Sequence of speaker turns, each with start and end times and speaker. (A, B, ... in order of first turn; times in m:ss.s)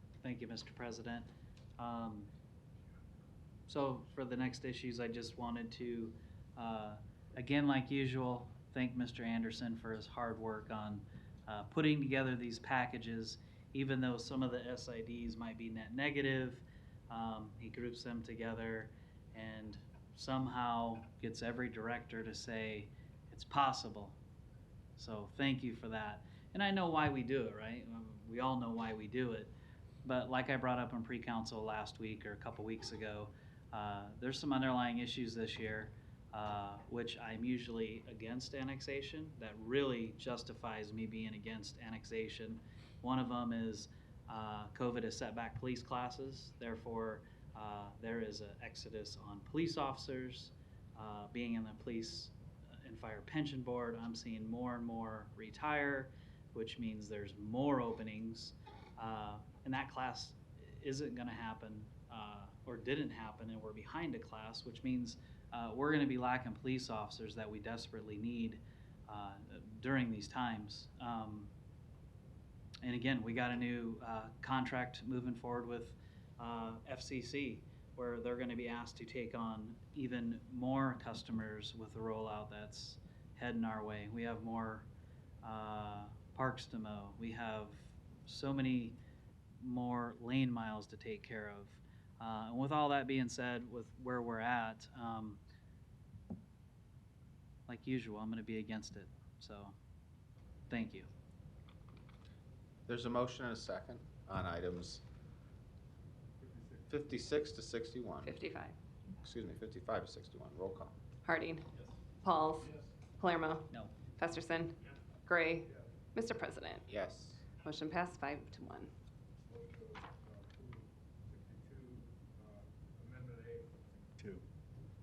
0:00.2-0:01.3 A
0:01.8-0:02.3 A
0:03.7-0:24.2 A
0:25.0-0:29.5 A
0:30.0-1:11.5 A
1:12.8-1:24.9 A
1:25.4-1:29.0 A
1:29.6-1:35.4 A
1:37.7-1:39.8 A
1:40.7-1:41.1 A
1:42.9-1:45.0 B
1:46.4-1:46.9 C
1:46.9-1:48.4 B
1:48.2-1:48.8 D
1:49.2-1:50.9 B
1:51.2-1:51.7 D
1:52.2-1:56.9 D
1:56.9-1:57.4 B
1:57.6-1:58.9 D
1:59.5-2:04.3 C